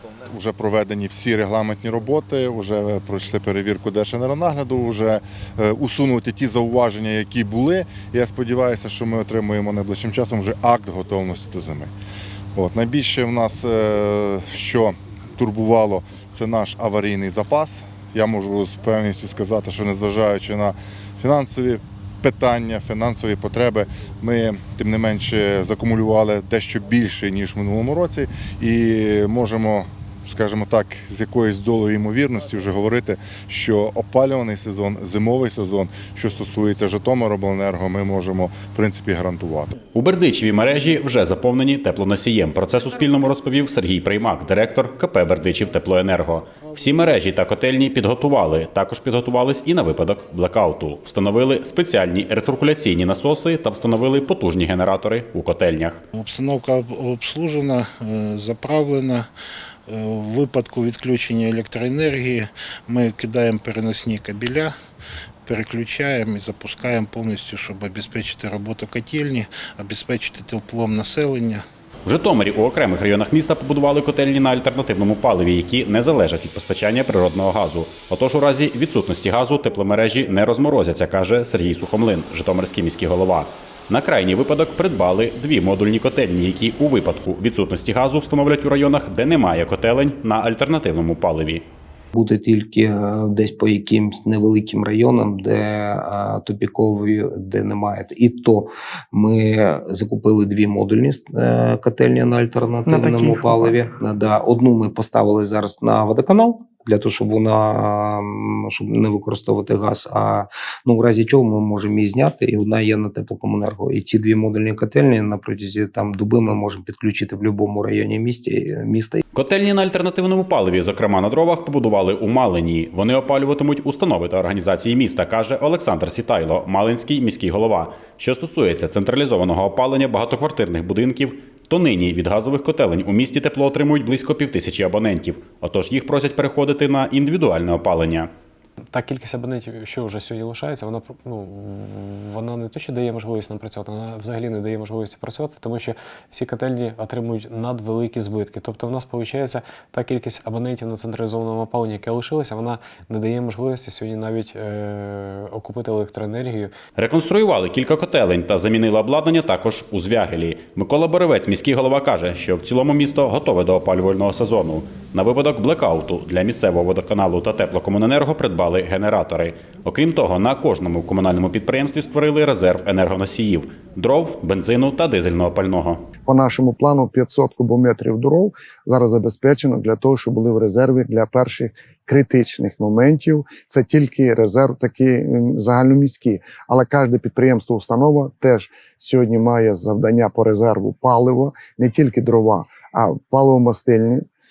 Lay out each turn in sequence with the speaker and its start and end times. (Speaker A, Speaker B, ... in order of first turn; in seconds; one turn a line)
Speaker A: 0.3-11.9
Speaker A: 12.6-39.7
Speaker B: 39.9-56.0
Speaker C: 56.2-59.3
Speaker C: 59.9-64.7
Speaker C: 65.5-71.6
Speaker B: 72.1-91.7
Speaker D: 92.1-119.2
Speaker E: 102.9-103.8
Speaker B: 119.3-138.3
Speaker F: 138.9-156.7
Speaker B: 157.0-176.0
Speaker E: 176.3-194.2